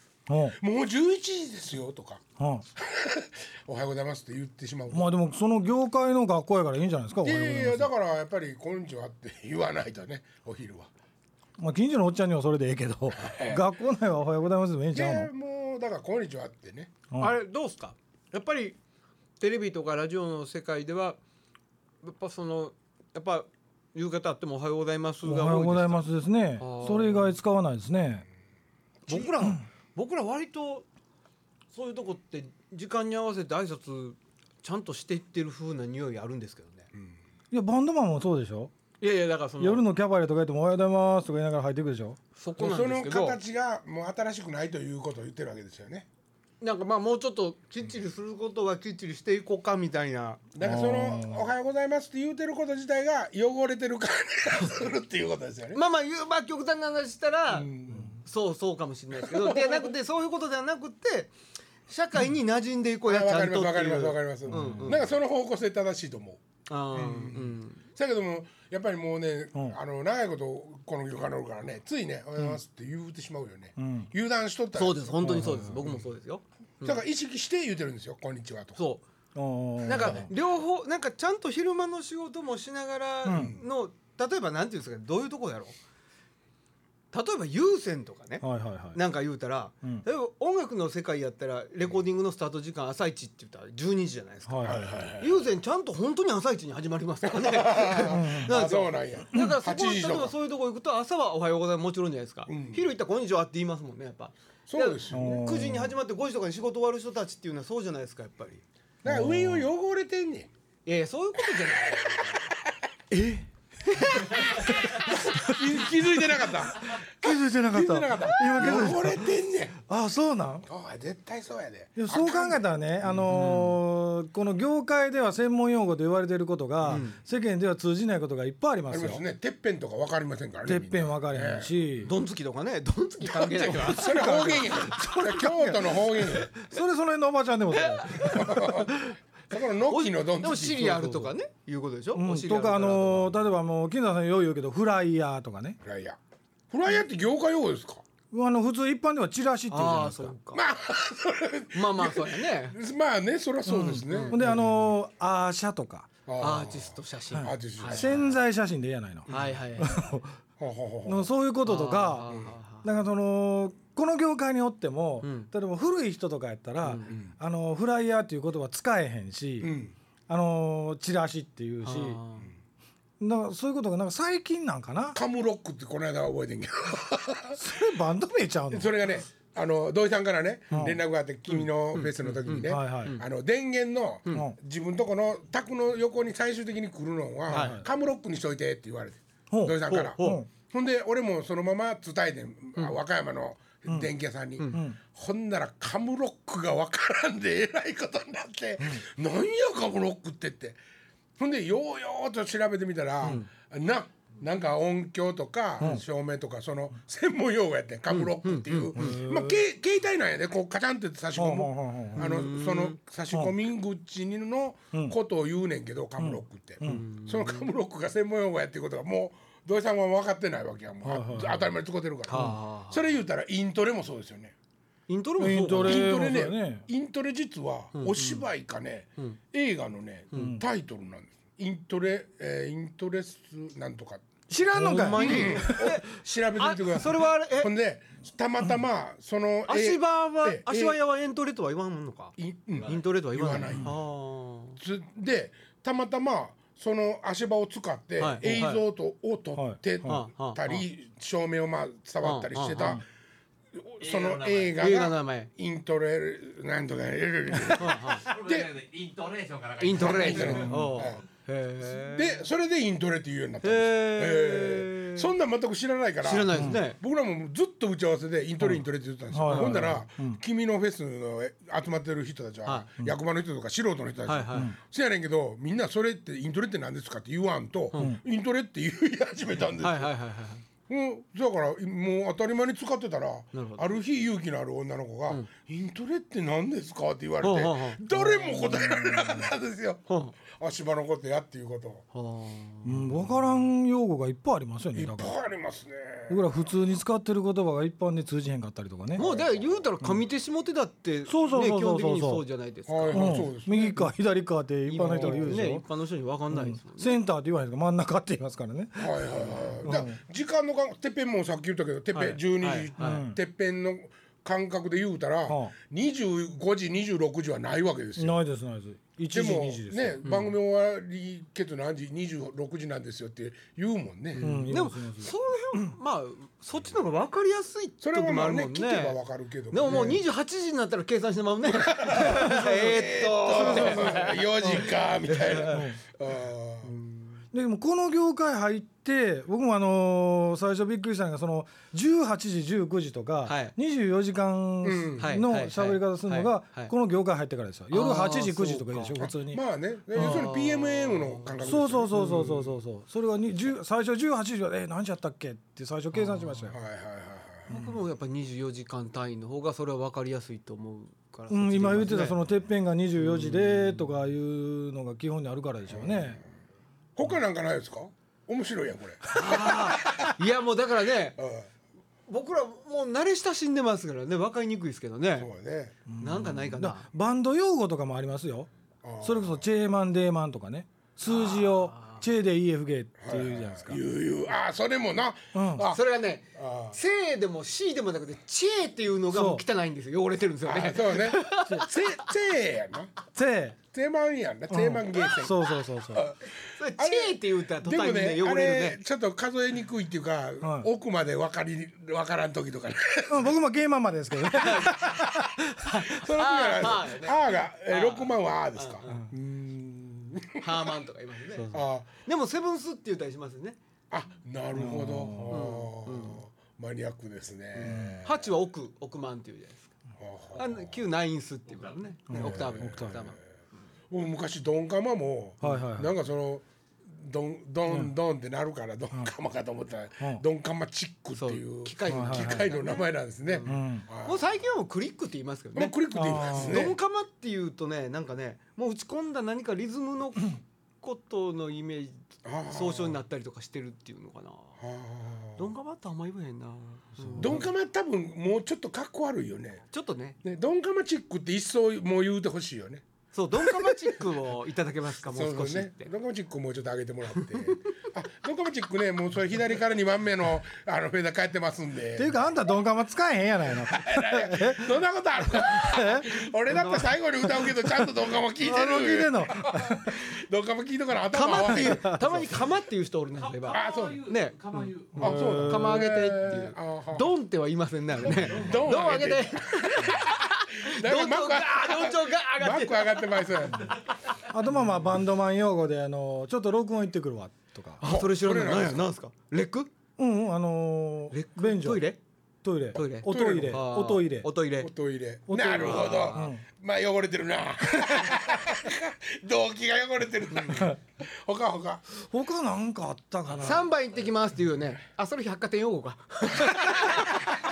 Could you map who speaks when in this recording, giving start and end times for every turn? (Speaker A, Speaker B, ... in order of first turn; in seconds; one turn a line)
Speaker A: 0.3-0.6
Speaker B: 0.6-2.2
Speaker A: 2.4-2.6
Speaker B: 2.8-5.1
Speaker A: 4.9-7.9
Speaker B: 7.2-10.9
Speaker A: 11.6-15.3
Speaker B: 13.2-13.6
Speaker B: 14.9-16.9
Speaker A: 17.1-17.4
Speaker C: 17.2-18.8
Speaker C: 19.4-21.2
Speaker C: 22.0-26.1
Speaker A: 25.2-28.2
Speaker C: 26.6-27.4
Speaker C: 29.1-30.9
Speaker A: 29.1-29.6
Speaker C: 31.7-36.9
Speaker A: 37.5-38.7
Speaker C: 39.0-39.8
Speaker A: 39.6-42.2
Speaker C: 42.4-43.4
Speaker B: 42.6-46.1
Speaker C: 46.6-50.4
Speaker B: 50.5-55.8
Speaker A: 50.6-51.5
Speaker C: 55.7-57.7
Speaker B: 57.5-58.2
Speaker C: 58.2-61.3
Speaker B: 59.2-59.9
Speaker C: 61.9-65.1
Speaker B: 63.1-66.4
Speaker A: 64.5-65.0
Speaker C: 66.7-67.8
Speaker B: 66.9-75.9
Speaker A: 73.8-74.1
Speaker C: 74.8-77.0
Speaker A: 75.2-75.8
Speaker B: 76.8-78.8
Speaker C: 78.8-79.0
Speaker A: 79.3-80.3
Speaker C: 79.8-85.8
Speaker A: 83.2-83.6
Speaker C: 87.1-108.6
Speaker A: 88.4-89.0
Speaker A: 94.5-95.0
Speaker B: 94.6-95.5
Speaker B: 97.2-100.3
Speaker A: 98.1-98.6
Speaker B: 102.5-102.9
Speaker B: 104.7-105.4
Speaker A: 105.1-105.9
Speaker B: 109.0-110.5
Speaker A: 109.0-109.7
Speaker C: 110.9-112.4
Speaker B: 111.6-112.7
Speaker A: 113.1-113.4
Speaker C: 113.8-115.4
Speaker A: 114.0-115.6
Speaker B: 114.3-119.8
Speaker A: 116.8-119.3
Speaker A: 119.9-120.6
Speaker B: 120.7-122.6
Speaker A: 122.0-129.2
Speaker C: 123.3-123.8
Speaker C: 126.8-127.2
Speaker B: 128.9-132.1
Speaker A: 130.7-132.1
Speaker C: 132.0-135.2
Speaker B: 133.2-136.5
Speaker A: 133.9-138.9
Speaker C: 137.9-138.4
Speaker B: 138.2-138.9
Speaker B: 139.5-141.3
Speaker C: 139.9-143.3
Speaker A: 142.1-145.8
Speaker B: 145.8-146.2
Speaker B: 146.7-148.0
Speaker A: 148.3-150.3
Speaker C: 149.7-150.6
Speaker B: 150.5-154.7
Speaker C: 151.7-152.8
Speaker A: 153.7-156.1
Speaker C: 154.1-154.5
Speaker B: 156.3-158.2
Speaker C: 156.4-158.4
Speaker A: 157.4-160.4
Speaker C: 159.3-160.0
Speaker B: 160.6-161.3
Speaker A: 161.1-169.7
Speaker C: 161.6-162.9
Speaker B: 162.3-162.5
Speaker C: 165.2-165.5
Speaker C: 166.8-167.2
Speaker B: 169.6-169.9
Speaker A: 170.3-172.2
Speaker C: 171.8-172.5
Speaker A: 173.2-175.2
Speaker B: 175.1-177.7
Speaker A: 177.6-178.9
Speaker B: 178.7-200.8
Speaker A: 180.7-181.0
Speaker C: 181.9-183.2
Speaker A: 182.5-183.2
Speaker A: 187.5-187.8
Speaker C: 187.5-187.8
Speaker A: 189.5-190.5
Speaker C: 189.9-190.4
Speaker C: 194.6-194.8
Speaker A: 194.7-195.0
Speaker B: 201.4-224.5
Speaker C: 203.2-203.5
Speaker C: 208.1-209.2
Speaker A: 209.0-209.6
Speaker A: 211.4-212.3
Speaker C: 212.1-213.0
Speaker A: 216.2-217.0
Speaker C: 216.8-217.7
Speaker A: 221.0-221.7
Speaker C: 222.3-223.1
Speaker C: 225.1-226.2
Speaker A: 225.4-226.8
Speaker B: 225.8-234.2
Speaker C: 227.9-228.4
Speaker C: 230.3-230.6
Speaker A: 230.3-230.6
Speaker A: 234.5-235.9
Speaker C: 234.7-237.7
Speaker B: 235.1-241.0
Speaker C: 239.7-244.8
Speaker B: 242.4-243.9
Speaker B: 244.8-253.0
Speaker C: 248.2-248.8
Speaker A: 249.5-250.2
Speaker C: 250.0-250.8
Speaker C: 252.2-253.0
Speaker B: 253.8-258.7
Speaker D: 254.0-254.8
Speaker C: 254.8-255.5
Speaker C: 257.8-258.3
Speaker D: 258.2-260.7
Speaker C: 259.8-262.4
Speaker B: 259.9-261.2
Speaker A: 260.6-261.0
Speaker B: 261.8-280.1
Speaker C: 263.6-265.3
Speaker C: 266.2-267.0
Speaker A: 266.5-266.8
Speaker A: 268.6-270.4
Speaker C: 269.5-269.9
Speaker C: 274.2-274.7
Speaker A: 277.9-278.2
Speaker C: 279.8-280.6
Speaker B: 280.9-292.0
Speaker C: 283.5-283.9
Speaker C: 287.4-288.7
Speaker A: 288.7-289.5
Speaker C: 290.1-290.3
Speaker C: 292.1-293.0
Speaker A: 292.8-295.4
Speaker B: 294.9-296.5
Speaker A: 296.3-299.2
Speaker B: 299.1-299.8
Speaker C: 299.1-303.4
Speaker A: 301.3-302.4
Speaker B: 302.9-304.0
Speaker A: 303.1-305.8
Speaker C: 304.9-307.2
Speaker B: 305.0-305.6
Speaker A: 306.5-309.3
Speaker B: 309.0-318.4
Speaker A: 309.8-310.2
Speaker C: 312.1-313.2
Speaker A: 313.0-313.4
Speaker A: 315.5-315.7
Speaker A: 318.2-320.2
Speaker B: 319.3-324.5
Speaker C: 320.2-320.5
Speaker C: 324.3-329.2
Speaker A: 324.4-325.9
Speaker B: 328.0-330.2
Speaker C: 329.7-335.8
Speaker A: 329.9-330.1
Speaker B: 331.8-336.9
Speaker A: 333.5-336.0
Speaker C: 336.8-337.4
Speaker A: 337.5-349.6
Speaker C: 343.4-343.7
Speaker B: 344.8-345.4
Speaker C: 345.2-346.9
Speaker C: 347.9-349.1
Speaker B: 349.1-352.6
Speaker A: 350.1-350.5
Speaker C: 350.1-352.5
Speaker A: 351.6-356.8
Speaker C: 356.2-356.6
Speaker B: 356.6-357.7
Speaker C: 357.7-362.4
Speaker A: 361.5-366.4
Speaker C: 363.2-364.1
Speaker B: 366.0-366.4
Speaker B: 367.1-370.3
Speaker C: 369.3-371.4
Speaker B: 371.4-371.7
Speaker C: 372.3-375.5
Speaker B: 375.4-375.9
Speaker A: 376.1-378.7
Speaker C: 376.2-377.1
Speaker B: 379.0-379.6
Speaker A: 379.2-384.0
Speaker C: 381.2-382.2
Speaker B: 383.2-386.0
Speaker A: 385.5-385.9
Speaker C: 385.9-392.1
Speaker B: 386.5-387.0
Speaker A: 389.3-389.6
Speaker B: 390.6-393.1
Speaker A: 393.3-393.8
Speaker B: 393.9-403.5
Speaker A: 394.7-396.2
Speaker C: 396.8-399.0
Speaker A: 400.6-400.9
Speaker A: 403.3-405.8
Speaker C: 404.6-405.0
Speaker C: 405.8-407.4
Speaker B: 406.1-410.9
Speaker C: 407.9-409.3
Speaker C: 410.6-413.8
Speaker A: 411.5-411.8
Speaker B: 411.7-412.1
Speaker B: 414.1-418.5
Speaker A: 414.7-415.7
Speaker C: 415.5-416.4
Speaker C: 417.8-419.9
Speaker A: 417.8-418.2
Speaker B: 420.2-421.0
Speaker C: 420.6-423.4
Speaker A: 422.3-423.3
Speaker B: 422.3-423.3
Speaker B: 424.1-434.5
Speaker A: 425.6-426.1
Speaker A: 427.9-428.1
Speaker C: 431.3-444.7
Speaker A: 432.1-432.7
Speaker A: 433.6-434.1
Speaker B: 435.8-436.9
Speaker A: 436.1-436.9
Speaker B: 442.4-443.2
Speaker B: 444.8-445.6
Speaker C: 445.6-447.7
Speaker B: 447.4-449.8
Speaker C: 449.9-450.4
Speaker B: 450.4-453.0
Speaker C: 453.3-456.1
Speaker B: 453.6-454.1
Speaker B: 455.2-462.4
Speaker A: 462.1-466.4
Speaker B: 463.8-472.5
Speaker C: 466.7-467.0
Speaker A: 467.4-470.2
Speaker C: 471.3-474.6
Speaker A: 471.6-472.2
Speaker D: 473.4-475.4
Speaker B: 473.7-474.2
Speaker A: 475.1-476.1
Speaker B: 475.2-477.3
Speaker C: 475.3-483.5
Speaker B: 478.2-484.0
Speaker A: 484.5-488.0
Speaker C: 488.0-489.9
Speaker B: 488.0-489.1
Speaker A: 490.2-492.0
Speaker C: 491.3-492.2
Speaker A: 492.6-494.5
Speaker C: 492.9-494.9
Speaker B: 493.1-493.9
Speaker B: 494.8-502.0
Speaker A: 495.5-496.6
Speaker C: 495.7-496.5
Speaker C: 500.5-500.9
Speaker A: 502.2-503.9
Speaker C: 503.6-507.4